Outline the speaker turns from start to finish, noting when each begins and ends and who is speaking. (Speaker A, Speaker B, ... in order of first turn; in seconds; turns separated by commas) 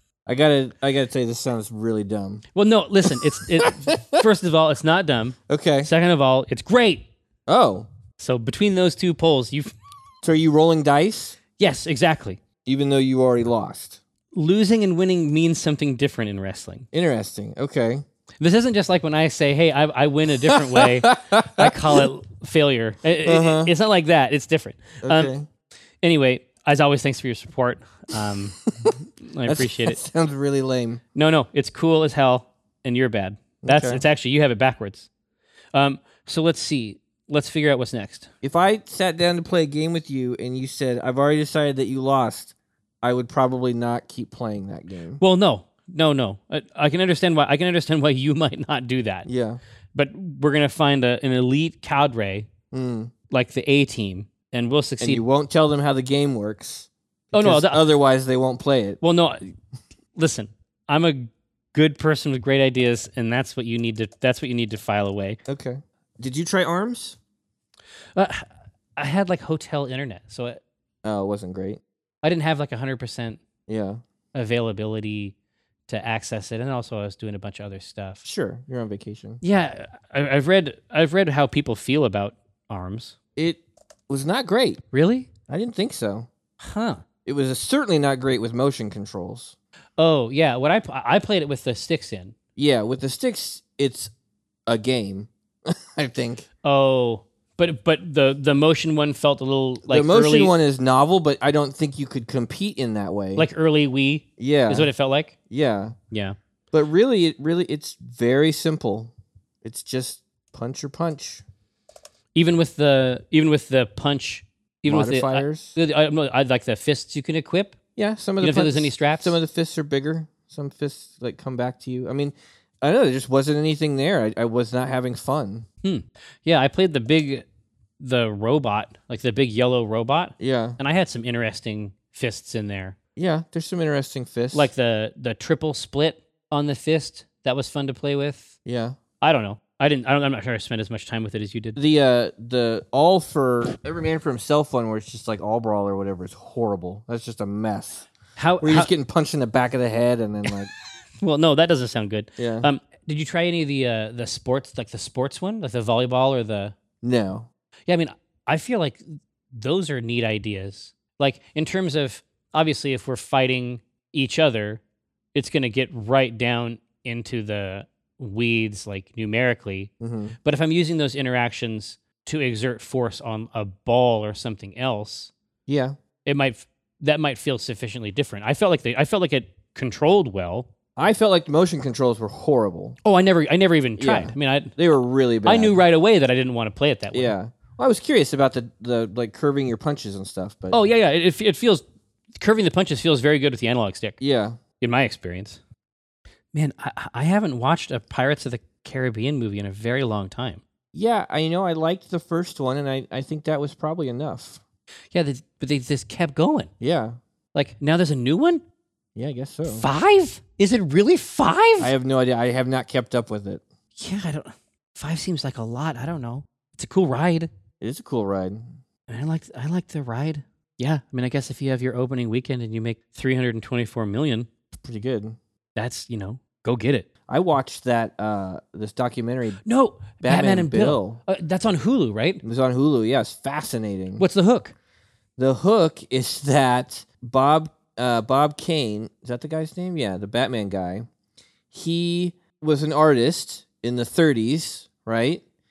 Speaker A: 0.2-2.4, Speaker B: 2.5-7.1, Speaker A: 3.1-4.2, Speaker A: 5.5-5.9, Speaker A: 7.5-7.9, Speaker B: 8.2-9.7, Speaker A: 10.2-11.4, Speaker B: 11.6-12.4, Speaker A: 12.6-14.0, Speaker B: 14.3-16.9, Speaker A: 16.9-18.0, Speaker B: 18.4-25.3, Speaker A: 20.5-22.0, Speaker A: 23.2-23.7, Speaker A: 25.0-25.4, Speaker B: 26.0-28.6, Speaker A: 28.7-28.9, Speaker B: 29.2-30.0, Speaker A: 29.4-31.0, Speaker B: 31.1-35.1, Speaker A: 33.6-34.0, Speaker B: 35.7-38.3, Speaker A: 38.4-45.2, Speaker B: 45.2-49.3, Speaker A: 49.2-49.6, Speaker B: 49.9-52.5, Speaker A: 52.7-53.1, Speaker B: 53.3-55.2, Speaker A: 55.0-59.0, Speaker B: 57.3-57.8, Speaker B: 59.0-59.5, Speaker B: 60.1-65.4, Speaker A: 65.5-67.2, Speaker B: 68.2-70.6, Speaker A: 71.0-71.8, Speaker B: 72.2-73.4, Speaker A: 73.7-74.0, Speaker B: 74.3-75.3, Speaker B: 75.9-78.2, Speaker A: 78.2-79.4, Speaker B: 79.4-83.2, Speaker A: 83.3-84.8, Speaker B: 84.9-85.3, Speaker A: 85.5-86.3, Speaker B: 86.6-87.0, Speaker A: 87.2-89.5, Speaker B: 90.0-92.3, Speaker A: 92.6-94.1, Speaker A: 94.7-96.5, Speaker B: 96.6-100.5, Speaker A: 99.9-103.5, Speaker B: 103.3-105.3, Speaker A: 104.4-104.9, Speaker A: 105.5-105.9, Speaker B: 106.1-106.3, Speaker A: 106.7-109.1, Speaker A: 109.6-111.4, Speaker B: 112.3-117.8, Speaker A: 114.9-115.8, Speaker A: 118.0-125.7, Speaker B: 118.4-119.4, Speaker B: 125.8-127.4, Speaker B: 128.0-132.9, Speaker A: 130.4-130.8, Speaker A: 133.2-134.7, Speaker B: 134.5-138.5, Speaker A: 138.6-138.9, Speaker B: 139.2-141.8, Speaker A: 141.8-148.1, Speaker B: 148.3-148.9, Speaker A: 148.6-150.7, Speaker B: 151.2-156.7, Speaker A: 152.4-152.7, Speaker A: 157.0-157.5, Speaker B: 157.9-164.8, Speaker B: 165.3-169.9, Speaker A: 170.0-170.3, Speaker B: 170.4-175.3, Speaker A: 175.7-176.0, Speaker B: 176.2-180.7, Speaker A: 180.9-183.0, Speaker B: 183.0-184.7, Speaker A: 184.0-185.8, Speaker B: 185.4-187.3, Speaker A: 187.1-190.8, Speaker B: 190.7-191.8, Speaker B: 192.4-194.2, Speaker A: 194.2-194.6, Speaker B: 194.8-195.6, Speaker B: 196.5-200.6, Speaker A: 200.9-204.6, Speaker B: 205.1-206.7, Speaker A: 206.8-207.2, Speaker B: 207.5-208.6, Speaker A: 209.2-209.9, Speaker B: 209.7-211.9, Speaker A: 211.8-213.6, Speaker B: 214.0-217.5, Speaker A: 217.8-218.7, Speaker B: 219.1-224.5, Speaker A: 224.8-225.4, Speaker B: 225.8-227.1, Speaker A: 227.3-229.6, Speaker B: 229.6-232.4, Speaker A: 230.2-231.2, Speaker A: 232.4-234.2, Speaker B: 234.2-234.7, Speaker A: 235.4-241.1, Speaker A: 241.7-245.4